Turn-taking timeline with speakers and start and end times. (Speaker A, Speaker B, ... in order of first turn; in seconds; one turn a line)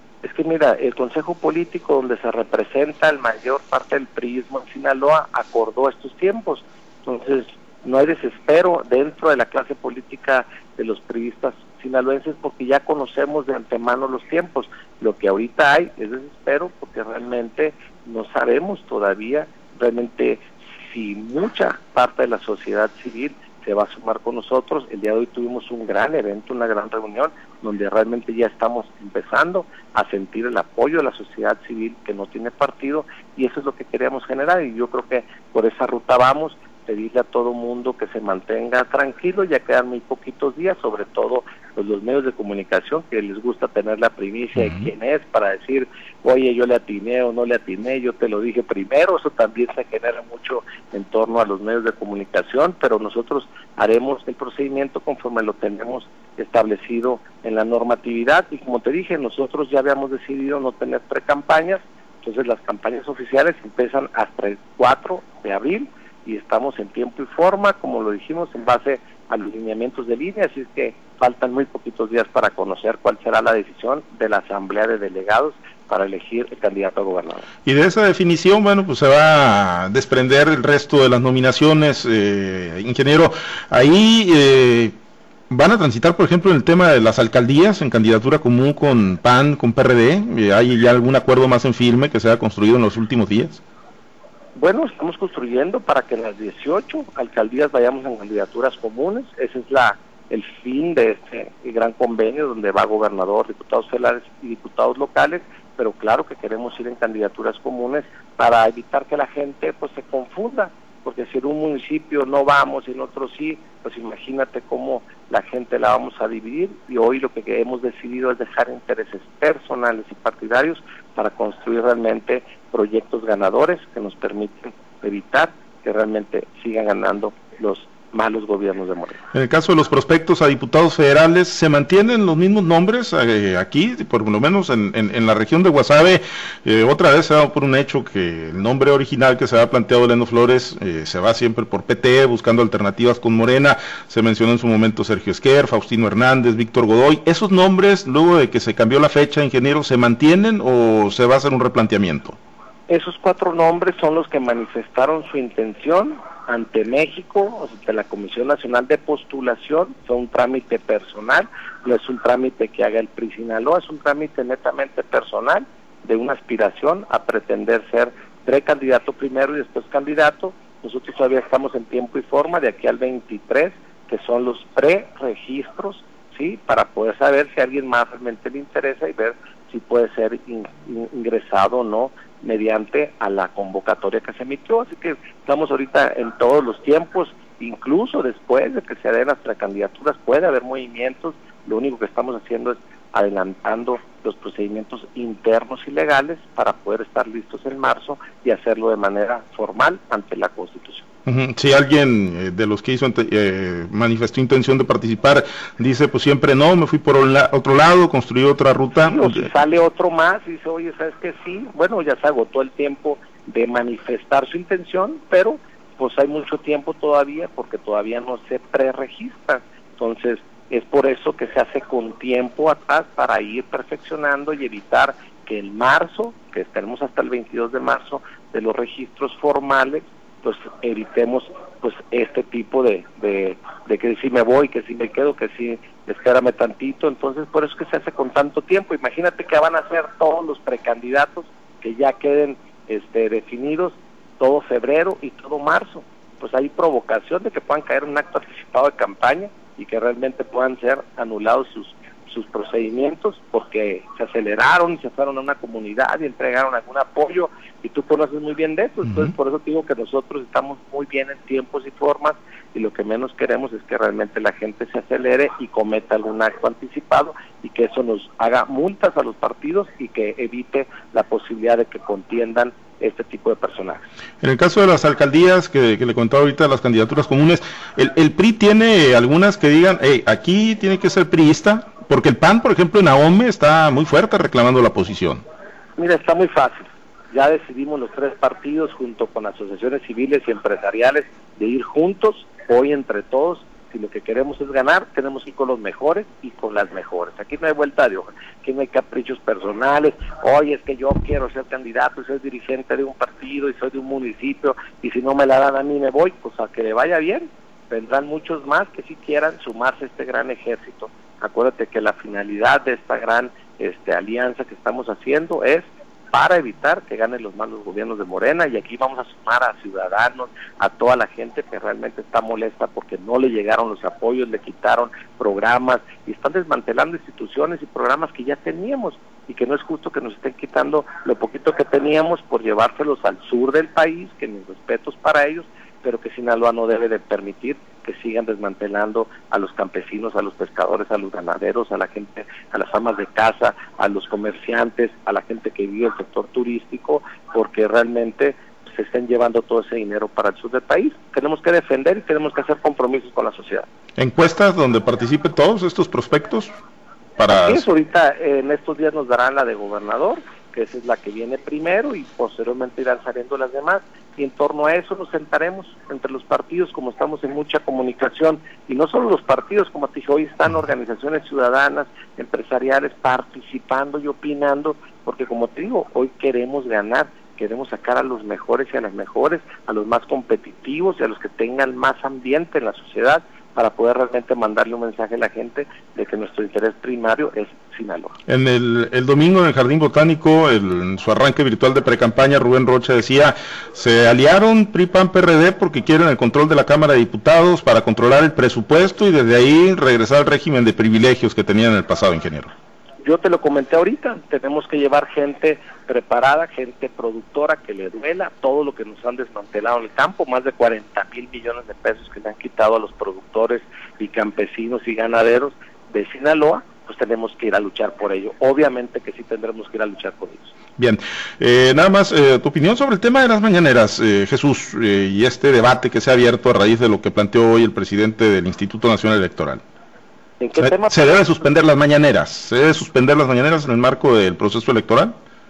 Speaker A: 0.2-77.5
Speaker B: 44.6-44.9
Speaker B: 77.7-84.9
Speaker B: 85.5-93.6
Speaker A: 94.6-129.2
Speaker B: 129.3-152.4
Speaker A: 152.9-201.1
Speaker B: 201.3-209.5
Speaker A: 209.0-274.1
Speaker B: 274.4-285.4
Speaker A: 286.0-353.9
Speaker B: 354.2-356.7
Speaker B: 357.4-357.9
Speaker A: 357.5-388.3
Speaker B: 388.5-402.7
Speaker A: 403.2-420.7
Speaker B: 421.0-429.8
Speaker A: 430.6-431.5
Speaker B: 430.8-435.3